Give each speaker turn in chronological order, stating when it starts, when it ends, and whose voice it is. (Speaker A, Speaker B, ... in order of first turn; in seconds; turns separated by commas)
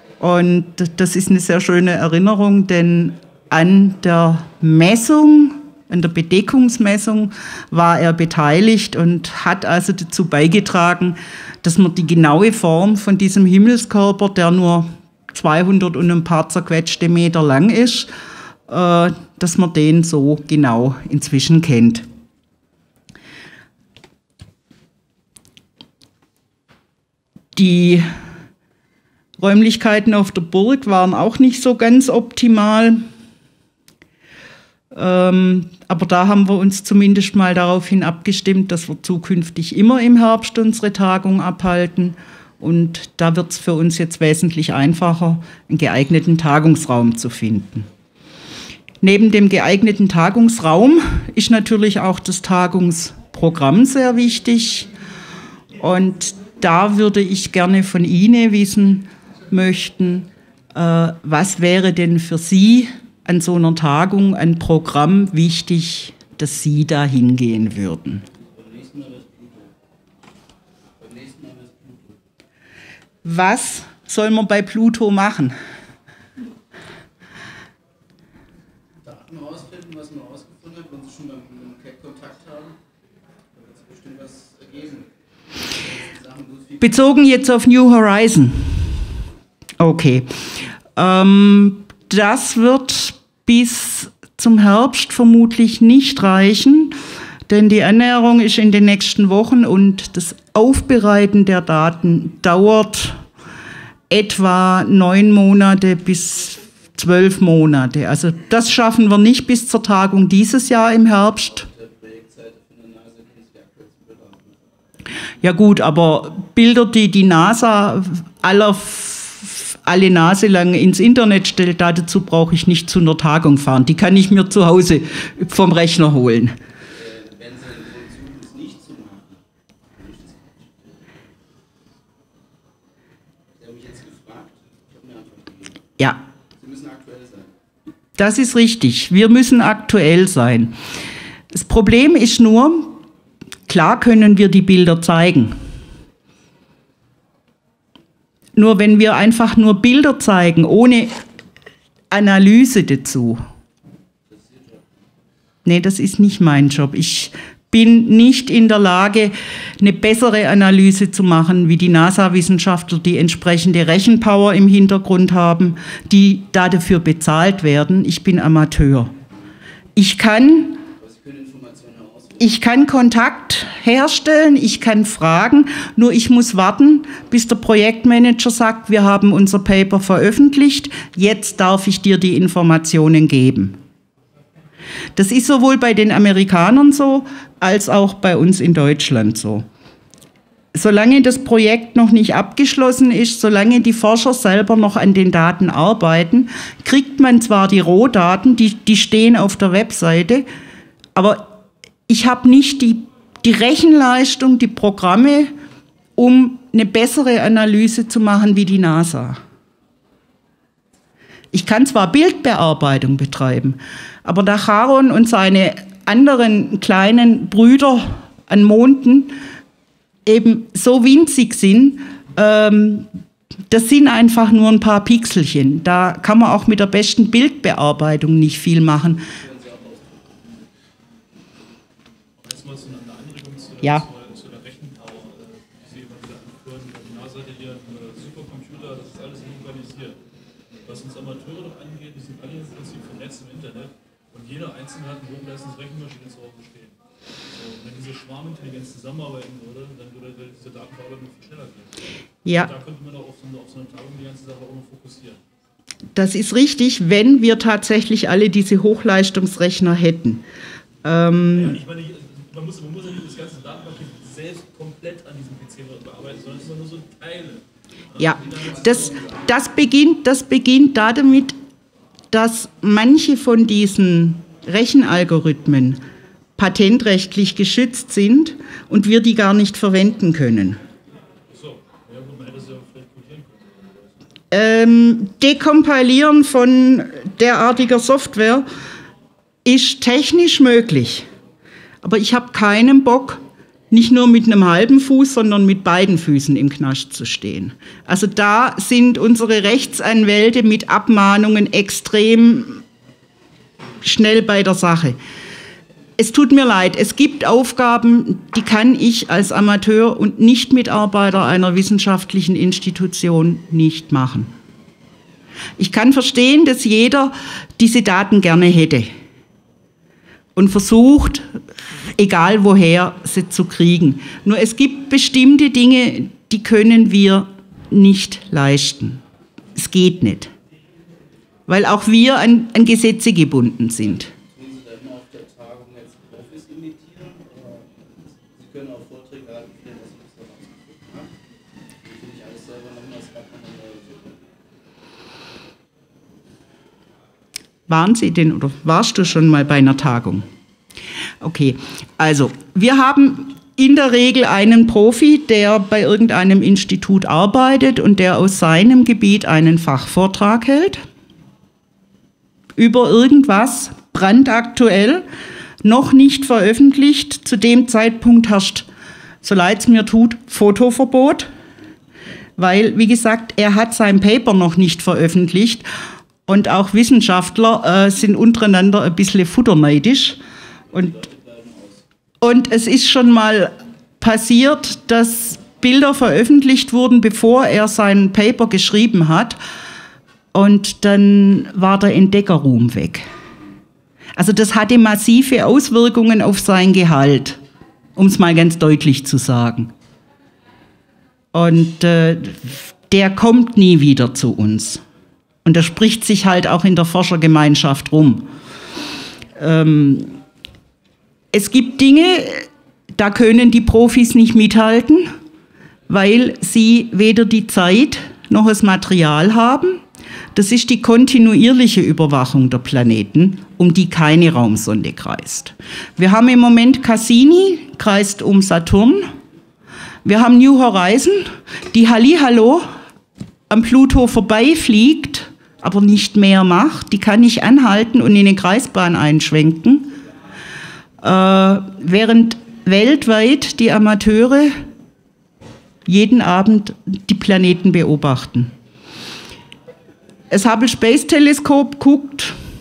Speaker A: 0.2-18.1, Speaker A: 18.7-22.1, Speaker A: 27.5-28.1, Speaker A: 29.4-33.0, Speaker A: 34.9-47.9, Speaker A: 49.0-54.9, Speaker A: 55.8-68.2, Speaker B: 68.5-69.7, Speaker B: 71.0-72.2, Speaker A: 73.2-75.5, Speaker B: 79.0-82.8, Speaker B: 83.5-85.1, Speaker B: 85.7-87.0, Speaker A: 86.8-88.9, Speaker A: 89.8-90.3, Speaker A: 91.0-97.0, Speaker A: 97.5-103.2, Speaker A: 104.1-111.7, Speaker B: 111.4-114.7, Speaker A: 115.4-126.5, Speaker B: 126.9-131.1, Speaker B: 133.6-136.0, Speaker B: 136.5-137.5, Speaker A: 138.2-140.7, Speaker A: 141.5-143.0, Speaker A: 143.7-145.6, Speaker A: 148.5-151.1, Speaker A: 152.1-153.4, Speaker B: 154.3-155.0, Speaker A: 155.6-169.1, Speaker A: 169.9-170.8, Speaker B: 171.0-172.6, Speaker A: 172.4-183.8, Speaker A: 185.2-189.6, Speaker A: 190.7-200.4, Speaker A: 201.1-201.5, Speaker A: 202.1-205.5, Speaker A: 206.2-209.4, Speaker A: 211.5-219.3, Speaker A: 220.2-223.1, Speaker A: 223.7-229.2, Speaker B: 229.2-230.7, Speaker C: 232.4-240.2, Speaker C: 240.8-246.9, Speaker C: 247.5-251.9, Speaker C: 252.6-255.4, Speaker A: 256.1-260.4, Speaker A: 261.0-261.8, Speaker C: 261.5-269.1, Speaker A: 268.2-271.6, Speaker A: 272.3-276.0, Speaker A: 276.6-280.8, Speaker C: 281.5-283.9, Speaker A: 284.5-288.6, Speaker A: 289.6-291.3, Speaker A: 292.0-302.8, Speaker A: 304.0-305.2, Speaker A: 306.2-314.5, Speaker A: 315.8-319.1, Speaker A: 320.5-321.5, Speaker A: 322.2-329.2, Speaker A: 329.8-330.5, Speaker A: 331.7-334.3, Speaker B: 334.3-341.3, Speaker B: 342.0-344.5, Speaker A: 347.9-350.5, Speaker A: 351.4-361.0, Speaker A: 362.8-365.2, Speaker A: 365.8-368.9, Speaker A: 369.4-371.5, Speaker A: 372.6-375.9, Speaker A: 376.5-380.4, Speaker B: 380.9-382.0, Speaker A: 380.9-381.2, Speaker A: 382.4-389.6, Speaker A: 390.5-393.2, Speaker A: 394.4-397.6, Speaker A: 398.1-399.9, Speaker A: 401.5-405.0, Speaker A: 405.6-408.5, Speaker A: 409.6-410.3, Speaker A: 411.5-415.3, Speaker A: 416.1-420.0, Speaker A: 420.5-429.3, Speaker A: 430.2-432.9, Speaker A: 433.7-440.1, Speaker A: 441.2-444.8, Speaker A: 446.1-448.7, Speaker A: 450.5-452.6